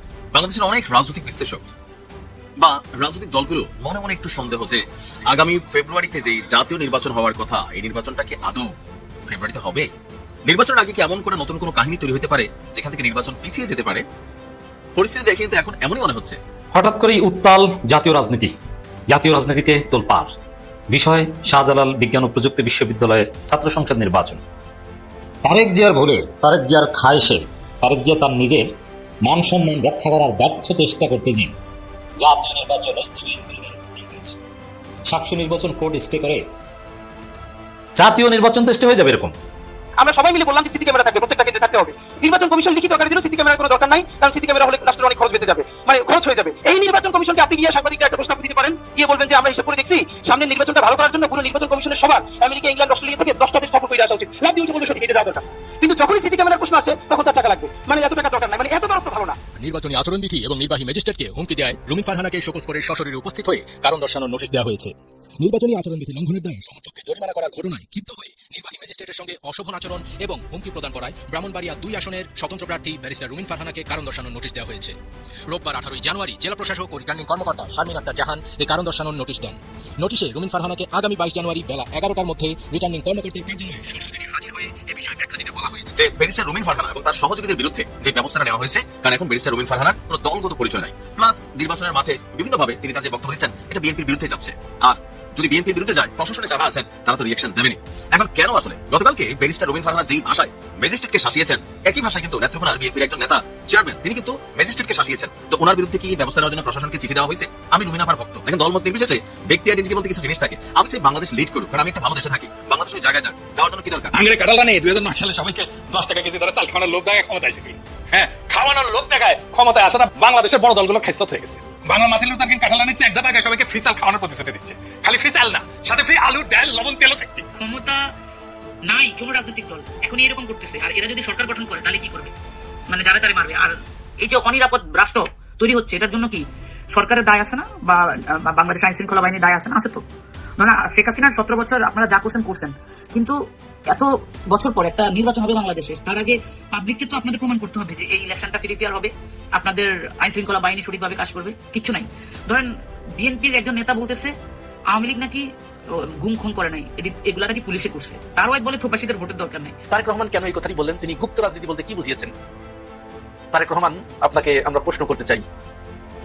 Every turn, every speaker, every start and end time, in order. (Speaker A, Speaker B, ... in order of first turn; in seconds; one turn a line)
Speaker A: 0.3-1.7
Speaker A: 2.6-8.7
Speaker A: 9.3-9.9
Speaker A: 10.5-14.0
Speaker A: 14.9-16.4
Speaker B: 16.7-18.5
Speaker B: 19.1-20.3
Speaker B: 20.9-24.4
Speaker B: 25.4-28.7
Speaker B: 29.2-31.5
Speaker B: 32.2-34.4
Speaker B: 35.1-36.4
Speaker B: 37.9-39.3
Speaker C: 40.0-59.4
Speaker D: 59.6-74.9
Speaker D: 75.5-85.9
Speaker A: 85.9-114.2
Speaker E: 114.1-127.5
Speaker F: 127.5-128.0
Speaker F: 128.9-132.3
Speaker F: 132.9-140.0
Speaker F: 140.6-143.4
Speaker F: 143.9-154.3
Speaker F: 154.9-155.4
Speaker F: 156.2-159.8
Speaker G: 159.9-162.3
Speaker G: 163.5-165.4